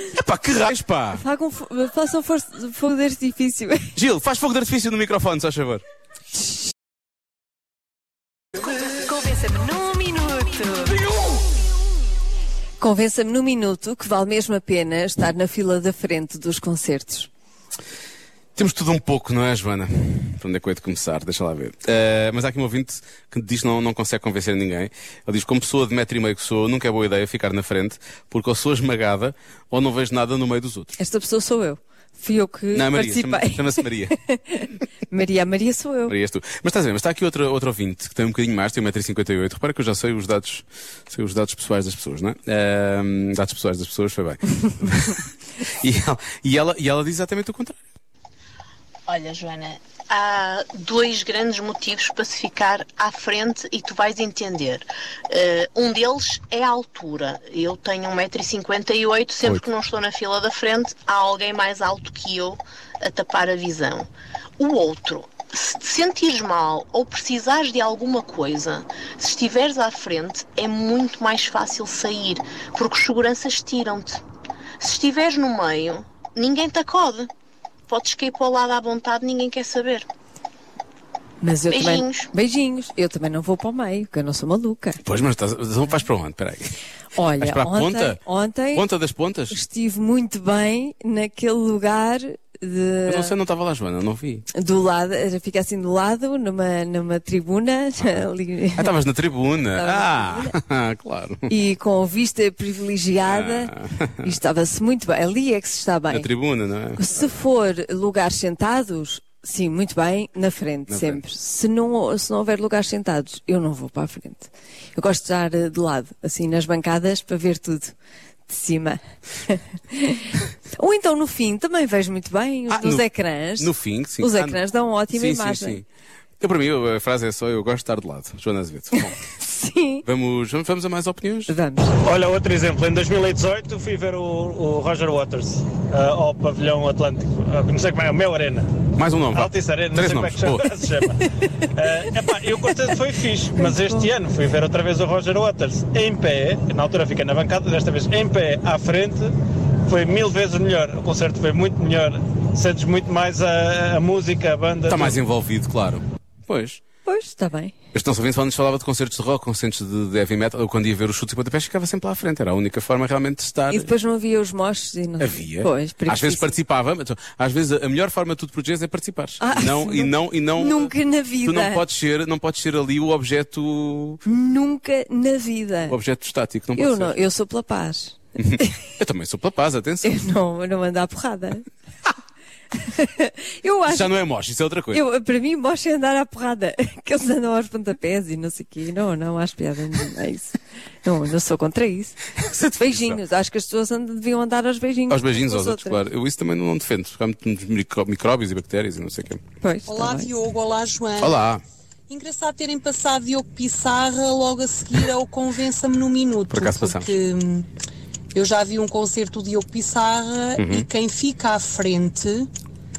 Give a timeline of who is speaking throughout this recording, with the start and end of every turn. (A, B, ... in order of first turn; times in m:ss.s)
0:00.1-0:01.2 A
0:01.1-0:04.0 B
0:03.9-0:05.8 A
0:09.0-0:11.0 B
0:12.8-0:17.3 B
0:18.6-0:31.0 A
0:31.0-0:36.1 B
0:32.7-0:34.1 A
0:36.1-0:47.8 A
0:49.1-1:14.2 C
1:14.8-1:17.3 C
1:17.9-1:20.1 C
1:21.4-1:25.0 B
1:21.7-1:22.3 C
1:25.0-1:26.8 A
1:27.2-1:28.8 B
1:27.4-1:28.2 A
1:28.7-1:29.6 A
1:29.5-1:33.3 B
1:33.1-1:34.5 A
1:34.5-1:38.9 B
1:38.0-1:41.5 A
1:39.8-1:40.6 B
1:41.5-1:46.3 B
1:43.3-1:44.3 A
1:46.1-1:47.2 A
1:47.0-1:57.9 B
1:50.9-1:51.2 A
1:58.5-2:05.8 B
2:02.7-2:03.0 A
2:03.6-2:04.6 A
2:05.1-2:05.8 A
2:06.4-2:09.2 A
2:09.0-2:10.0 B
2:10.0-2:11.5 A
2:11.5-2:11.9 B
2:12.0-2:18.8 D
2:19.0-2:20.6 A
2:19.3-2:29.3 D
2:23.7-2:24.0 B
2:29.8-2:35.2 D
2:34.9-2:36.8 A
2:37.0-2:37.7 B
2:37.9-2:43.9 A
2:43.7-2:46.5 B
2:45.2-2:54.2 A
2:49.4-2:51.8 B
2:54.2-2:56.0 B
2:55.9-2:57.2 A
2:56.8-2:58.8 B
2:58.4-3:00.2 A
3:00.0-3:01.6 B
3:02.7-3:04.1 B
3:03.9-3:05.0 A
3:04.9-3:12.2 B
3:12.4-3:13.2 A
3:12.8-3:16.0 B
3:15.1-3:19.4 A
3:19.6-3:20.3 B
3:19.8-3:21.4 E
3:21.2-3:21.6 A
3:22.1-3:27.7 E
3:26.5-3:27.1 A
3:28.3-3:32.5 E
3:30.6-3:30.8 A